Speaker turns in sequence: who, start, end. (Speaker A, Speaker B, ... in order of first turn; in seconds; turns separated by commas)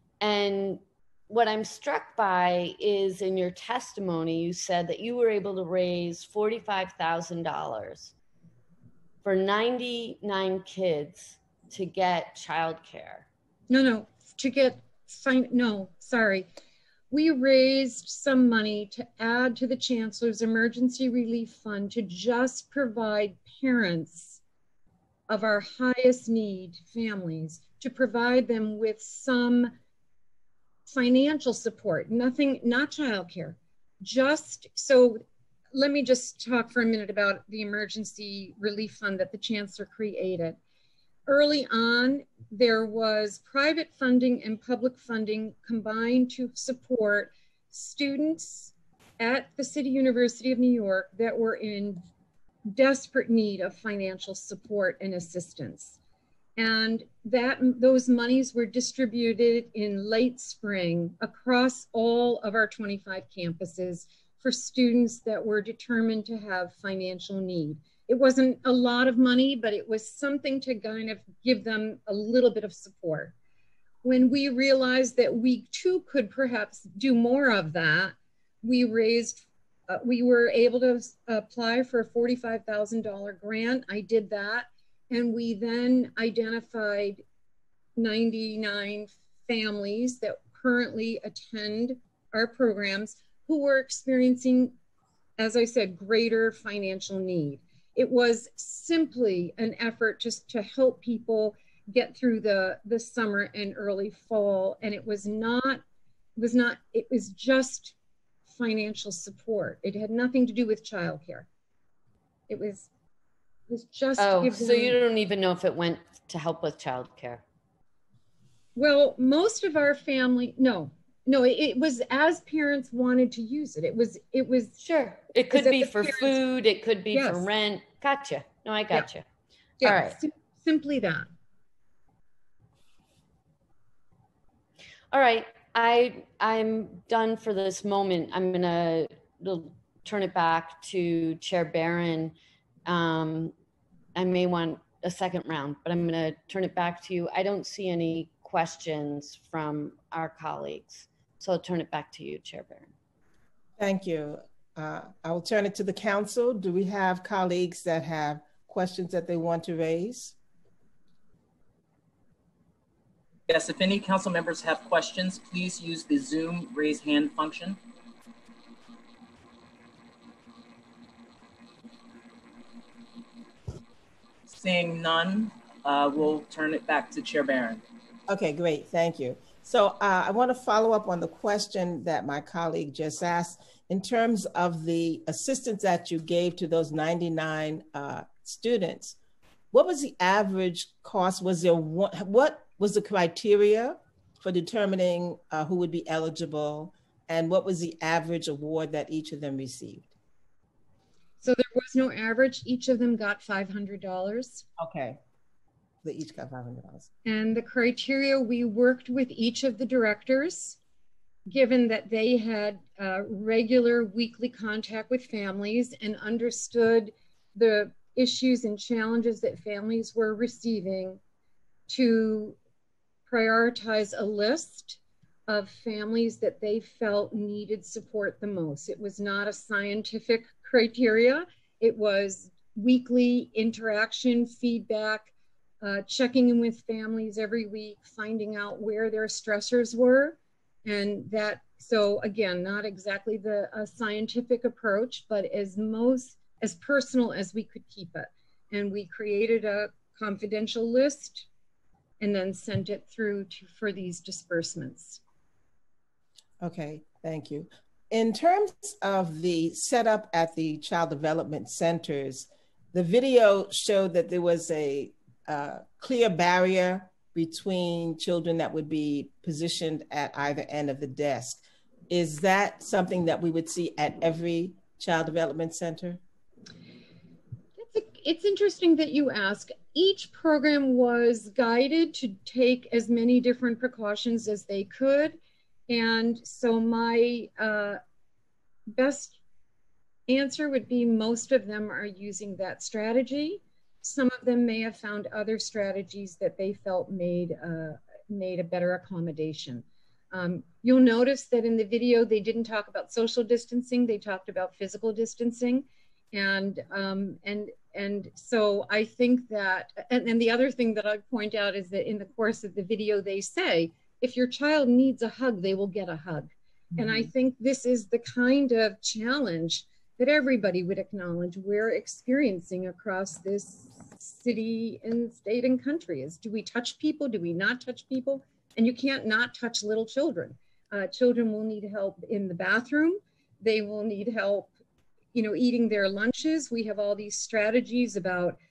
Speaker A: 0.2-8.1, Speaker A: 9.2-13.3, Speaker B: 13.7-16.5, Speaker B: 17.1-24.4, Speaker B: 25.3-29.8, Speaker B: 30.9-40.6, Speaker B: 41.3-52.0, Speaker B: 52.7-56.0, Speaker B: 56.6-73.3, Speaker B: 74.0-87.2, Speaker B: 88.0-94.7, Speaker B: 95.4-105.8, Speaker B: 106.4-108.0, Speaker B: 108.5-111.5, Speaker B: 112.5-112.9, Speaker B: 113.7-115.0, Speaker A: 114.2-117.4, Speaker B: 118.8-124.8, Speaker A: 124.8-129.2, Speaker B: 125.5-126.4, Speaker B: 127.1-127.5, Speaker B: 129.8-131.3, Speaker A: 129.8-130.2, Speaker A: 135.1-142.3, Speaker A: 142.9-143.5, Speaker A: 144.2-152.9, Speaker C: 153.8-160.3, Speaker D: 163.5-167.8, Speaker D: 174.5-177.8, Speaker C: 178.3-189.2, Speaker C: 189.7-200.1, Speaker B: 201.4-204.7, Speaker C: 204.8-205.2, Speaker C: 206.0-207.1, Speaker B: 207.2-210.8, Speaker B: 211.5-221.2, Speaker B: 221.9-222.6, Speaker B: 223.3-251.5, Speaker B: 252.2-255.2, Speaker C: 256.6-276.2, Speaker B: 277.8-288.0, Speaker B: 288.9-289.4, Speaker B: 290.3-334.7, Speaker C: 316.9-317.3, Speaker B: 335.3-338.6